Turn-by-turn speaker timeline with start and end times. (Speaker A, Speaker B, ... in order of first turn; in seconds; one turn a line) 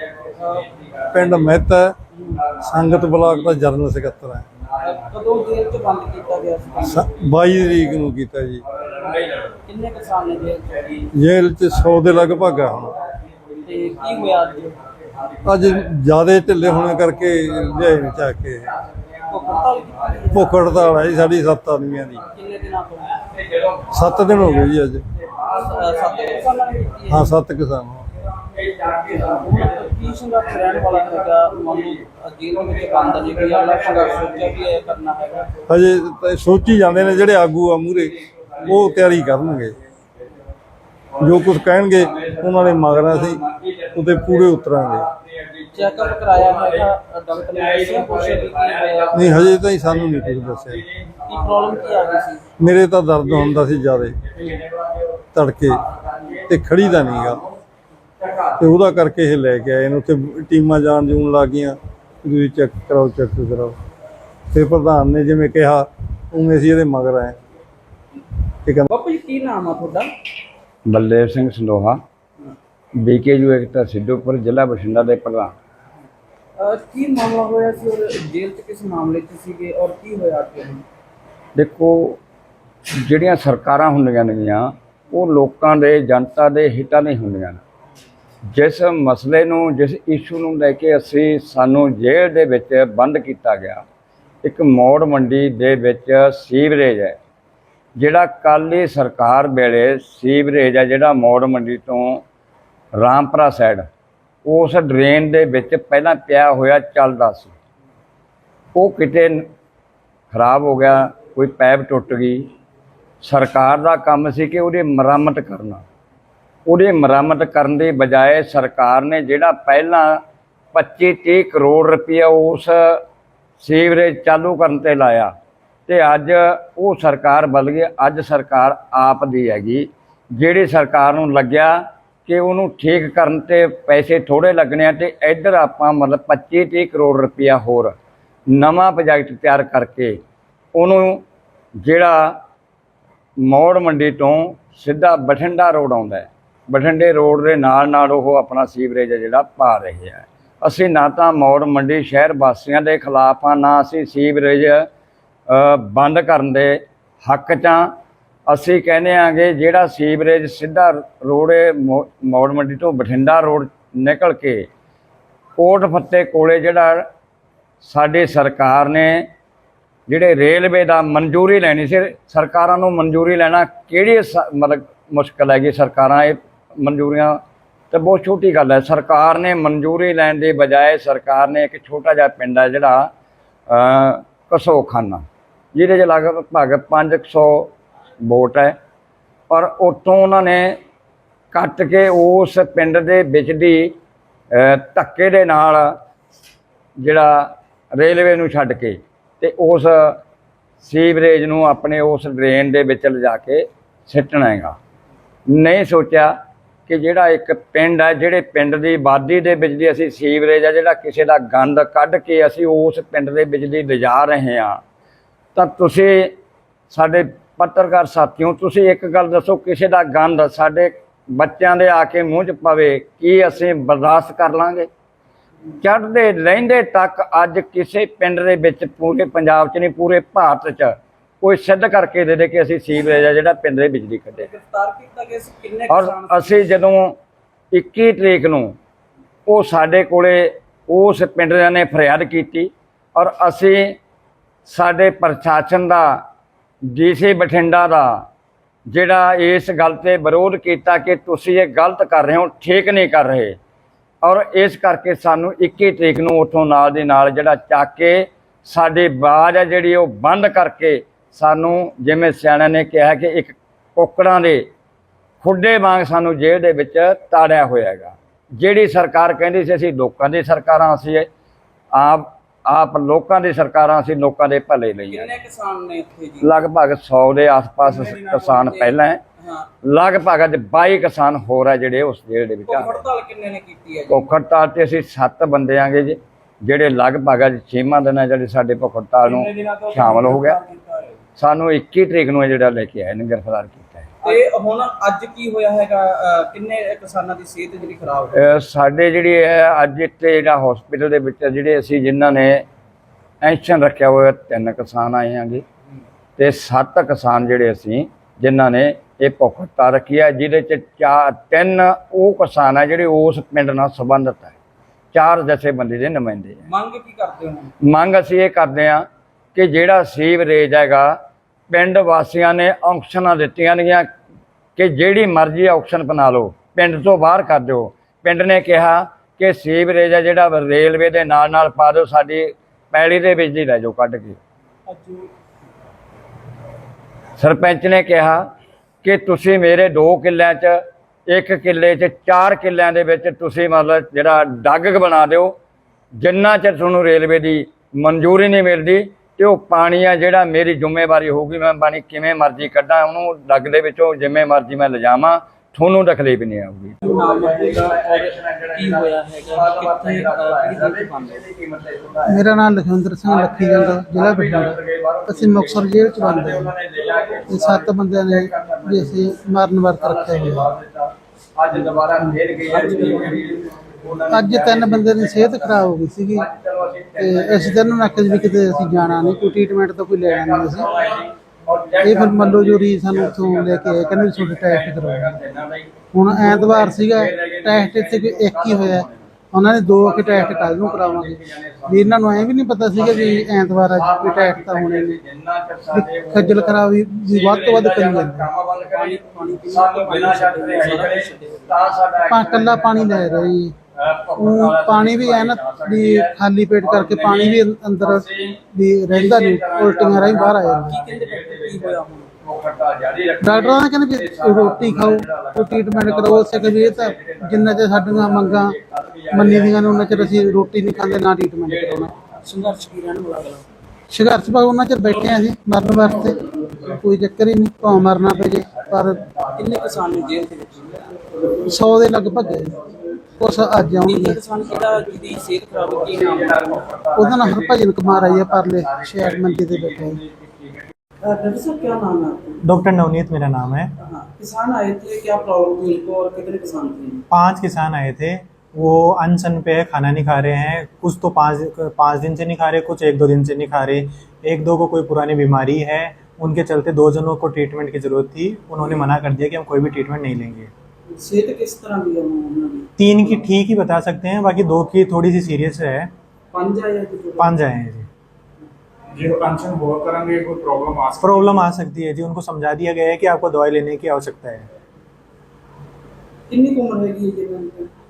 Speaker A: 0.4-0.7
Speaker B: 1.1-1.9
Speaker B: 2.6-4.5
Speaker A: 4.8-7.1
Speaker B: 6.9-8.6
Speaker A: 9.6-11.0
Speaker B: 11.1-13.0
Speaker A: 13.6-14.8
Speaker B: 15.4-18.7
Speaker A: 19.3-20.9
Speaker B: 20.3-22.2
Speaker A: 22.3-23.2
Speaker C: 23.5-24.4
Speaker B: 23.9-25.0
Speaker A: 25.5-27.4
Speaker B: 27.1-28.1
Speaker C: 28.6-29.0
Speaker A: 29.0-35.5
Speaker B: 35.7-39.7
Speaker C: 38.5-39.6
Speaker B: 41.2-43.4
Speaker C: 42.0-45.7
Speaker B: 43.9-45.1
Speaker A: 45.7-49.6
Speaker C: 47.5-51.1
Speaker B: 49.1-50.8
Speaker A: 51.2-52.4
Speaker B: 52.6-54.2
Speaker C: 54.4-54.9
Speaker B: 55.3-55.8
Speaker C: 56.0-56.3
Speaker B: 56.5-57.4
Speaker C: 56.9-57.3
Speaker C: 58.2-58.5
Speaker B: 58.6-63.8
Speaker B: 64.5-67.3
Speaker A: 68.9-70.1
Speaker C: 70.9-72.0
Speaker C: 73.0-75.5
Speaker A: 76.6-80.8
Speaker C: 81.5-82.2
Speaker C: 83.0-87.6
Speaker C: 88.5-93.8
Speaker C: 94.4-97.2
Speaker C: 98.0-102.2
Speaker C: 103.0-103.8
Speaker C: 104.4-107.5
Speaker C: 108.7-109.4
Speaker C: 110.3-112.5
Speaker C: 113.2-115.8
Speaker C: 116.7-120.2
Speaker C: 120.7-123.0
Speaker C: 123.6-125.3
Speaker C: 125.9-137.9
Speaker C: 138.5-140.2
Speaker C: 140.7-141.2
Speaker C: 141.8-142.4
Speaker C: 143.4-154.8
Speaker C: 155.5-157.9
Speaker C: 158.5-164.7
Speaker C: 165.6-167.0
Speaker C: 167.8-169.2
Speaker C: 170.1-177.4
Speaker C: 177.9-183.1
Speaker C: 183.7-187.7
Speaker C: 188.2-188.7
Speaker C: 189.5-190.8
Speaker C: 191.5-193.9
Speaker C: 194.5-195.9
Speaker C: 197.0-200.2
Speaker C: 200.8-204.8
Speaker C: 205.5-206.3
Speaker C: 206.9-214.8
Speaker C: 215.5-216.3
Speaker C: 216.9-224.9
Speaker C: 225.8-234.5
Speaker A: 234.3-236.6
Speaker C: 235.9-237.1
Speaker C: 237.7-238.7
Speaker C: 239.5-243.9
Speaker C: 244.7-246.2
Speaker C: 246.9-248.2
Speaker C: 248.9-253.6
Speaker C: 254.2-264.7
Speaker C: 265.4-271.3
Speaker C: 271.9-275.3
Speaker A: 275.1-276.6
Speaker C: 276.4-279.2
Speaker A: 277.8-279.7
Speaker C: 279.8-283.0
Speaker A: 282.7-284.3
Speaker C: 284.1-290.6
Speaker D: 290.7-291.0
Speaker C: 291.4-294.1
Speaker A: 294.2-298.3
Speaker C: 298.3-302.6
Speaker C: 303.4-305.6
Speaker C: 306.4-314.5
Speaker C: 315.1-316.6
Speaker A: 316.7-317.7
Speaker C: 317.8-321.1
Speaker C: 321.7-324.1
Speaker C: 324.8-334.4
Speaker A: 334.9-335.3
Speaker C: 337.4-338.4
Speaker C: 339.0-345.5
Speaker C: 346.2-362.4
Speaker A: 357.0-361.4
Speaker E: 362.3-366.7
Speaker C: 363.2-369.3
Speaker E: 367.4-370.7
Speaker C: 369.9-379.5
Speaker A: 372.7-373.5
Speaker E: 374.3-376.5
Speaker E: 377.2-380.9
Speaker C: 380.2-389.3
Speaker E: 382.0-385.4
Speaker E: 386.1-395.2
Speaker C: 389.9-422.1
Speaker E: 395.9-398.5
Speaker A: 398.9-401.7
Speaker E: 402.3-403.7
Speaker E: 404.4-411.0
Speaker A: 410.9-412.3
Speaker E: 413.4-418.8
Speaker E: 419.3-422.1
Speaker A: 422.4-423.6
Speaker E: 424.1-429.2
Speaker A: 429.6-431.1
Speaker E: 431.6-432.8
Speaker E: 433.4-434.4
Speaker A: 434.0-436.8
Speaker C: 436.6-437.8
Speaker E: 437.1-440.2
Speaker C: 438.3-440.4
Speaker A: 441.2-442.6
Speaker F: 442.6-443.9
Speaker A: 444.0-447.2
Speaker F: 447.3-460.7
Speaker A: 461.2-462.9
Speaker F: 463.0-466.1
Speaker A: 466.5-467.6
Speaker F: 467.4-468.1
Speaker D: 469.2-471.7
Speaker F: 471.2-474.7
Speaker A: 476.5-477.9